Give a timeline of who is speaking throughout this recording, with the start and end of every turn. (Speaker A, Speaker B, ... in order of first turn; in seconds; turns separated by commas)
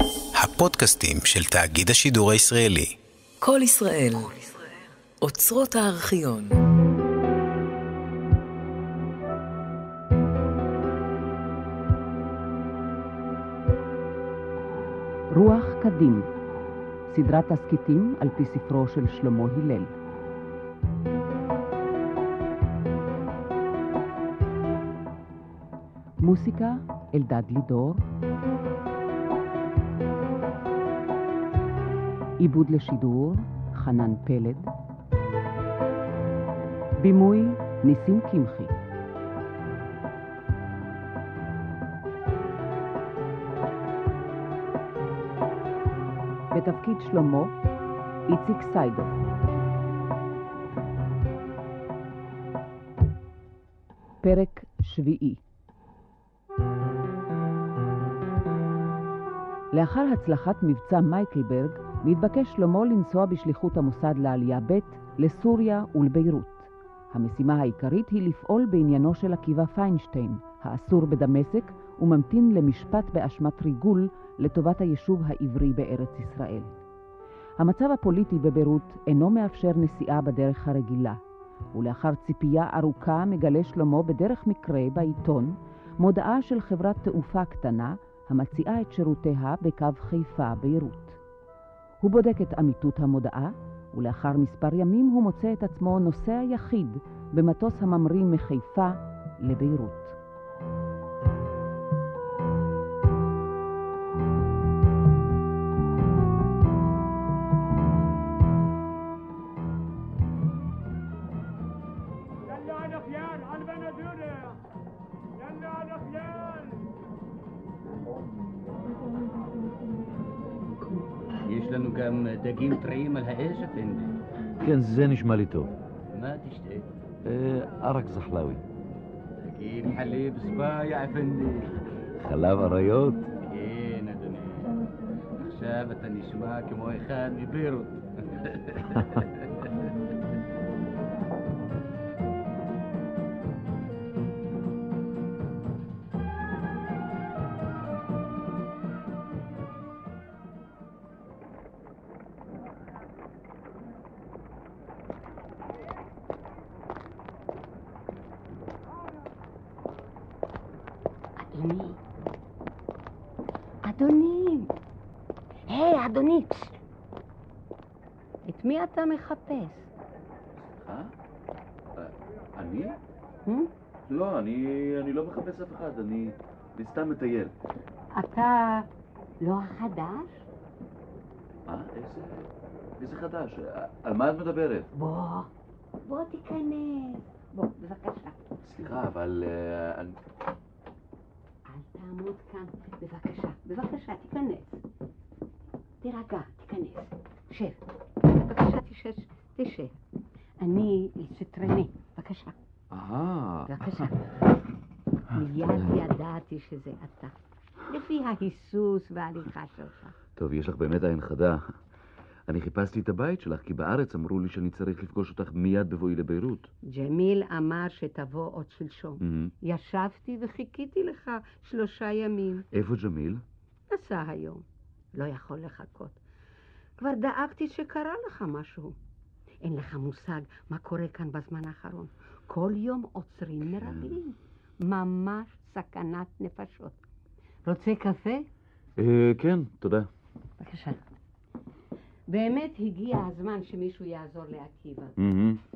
Speaker A: 0.3-2.9, Speaker B: 3.4-4.6, Speaker B: 5.2-6.6, Speaker C: 15.3-16.3, Speaker C: 17.1-19.9, Speaker C: 26.2-28.0, Speaker C: 32.4-34.7, Speaker C: 37.0-38.7, Speaker C: 46.5-47.5, Speaker C: 48.3-49.1, Speaker C: 54.2-55.4, Speaker C: 59.7-76.8, Speaker C: 77.6-81.2, Speaker C: 81.7-91.2, Speaker C: 92.0-100.2, Speaker D: 121.4-124.2, Speaker E: 124.6-125.7, Speaker D: 126.1-126.9, Speaker E: 127.2-128.6, Speaker D: 129.4-131.7, Speaker E: 132.2-133.3, Speaker D: 133.4-134.7, Speaker D: 135.4-138.9, Speaker F: 161.4-162.0, Speaker F: 163.8-164.7, Speaker F: 165.7-166.8, Speaker F: 168.5-169.9, Speaker E: 170.6-171.1, Speaker E: 171.9-173.0, Speaker E: 174.1-177.5, Speaker F: 178.1-178.9, Speaker F: 179.4-180.4, Speaker E: 181.7-182.5, Speaker E: 183.0-184.9, Speaker F: 184.9-185.5, Speaker F: 186.0-188.9, Speaker E: 188.6-190.2, Speaker F: 191.7-194.8, Speaker F: 196.0-199.9, Speaker F: 200.6-202.5, Speaker E: 202.9-204.1, Speaker F: 203.7-204.1, Speaker F: 205.3-207.3, Speaker F: 207.9-210.1, Speaker E: 210.3-211.8, Speaker E: 212.5-216.7, Speaker F: 216.9-222.6, Speaker E: 219.2-219.5, Speaker E: 222.7-223.4, Speaker F: 223.9-224.6, Speaker F: 225.1-226.2, Speaker F: 227.0-228.9, Speaker F: 229.6-237.0, Speaker F: 237.6-238.4, Speaker E: 239.0-240.1, Speaker F: 240.6-241.0, Speaker F: 242.3-245.1, Speaker E: 245.2-245.6